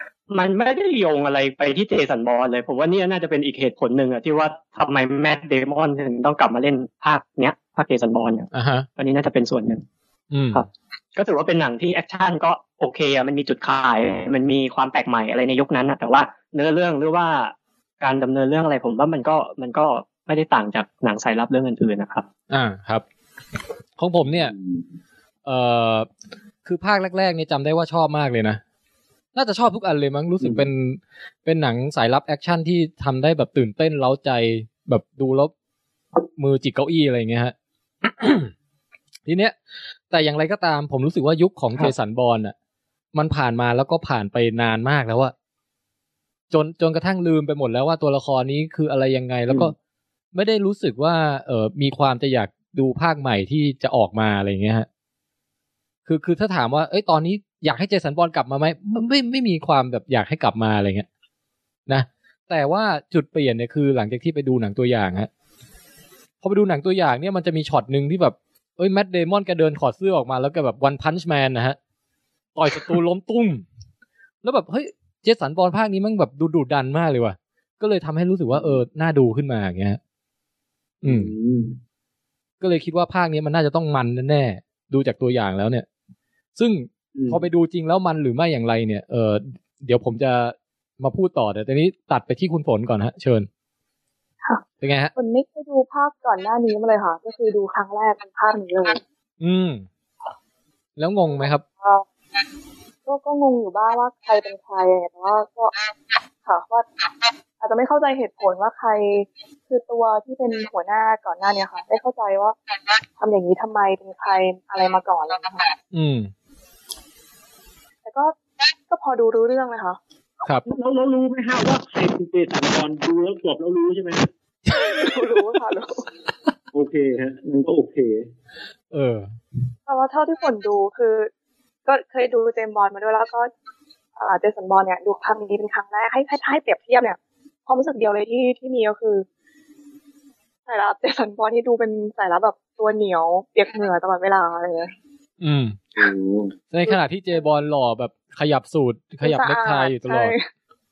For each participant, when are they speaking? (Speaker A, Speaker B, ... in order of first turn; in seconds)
Speaker A: 0.3-9.8, 10.5-22.3
Speaker B: 8.5-8.9, 10.3-10.6, 22.5-23.0, 24.0-24.5, 25.5-26.1, 26.6-28.6, 29.3-35.5, 36.4-38.5, 39.3-39.5, 40.1-42.5, 43.1-45.3, 46.5-49.7, 50.3-54.9, 56.1-61.1, 61.9-65.3, 66.4-71.8, 72.6-73.6, 74.4-80.0, 81.0-81.3, 82.6-85.9, 86.6-93.5, 94.8-95.1, 99.4-99.9, 101.0-101.6, 115.9-116.3, 124.7-125.1, 128.9-129.3, 145.4-145.8, 146.7-150.3
Speaker C: 24.2-24.8, 30.4-30.7, 78.5-78.8, 81.0-81.8, 87.2-87.4, 120.7-124.3, 126.7-128.3, 146.0-146.5
Speaker D: 95.2-99.0, 101.3-102.0, 103.1-105.7, 106.5-106.9, 107.6-112.6, 113.2-115.7, 118.0-118.3, 118.9-120.0, 124.9-126.1, 129.9-131.3, 131.9-133.5, 134.2-139.3, 140.7-144.9, 146.9-147.4, 149.2-150.5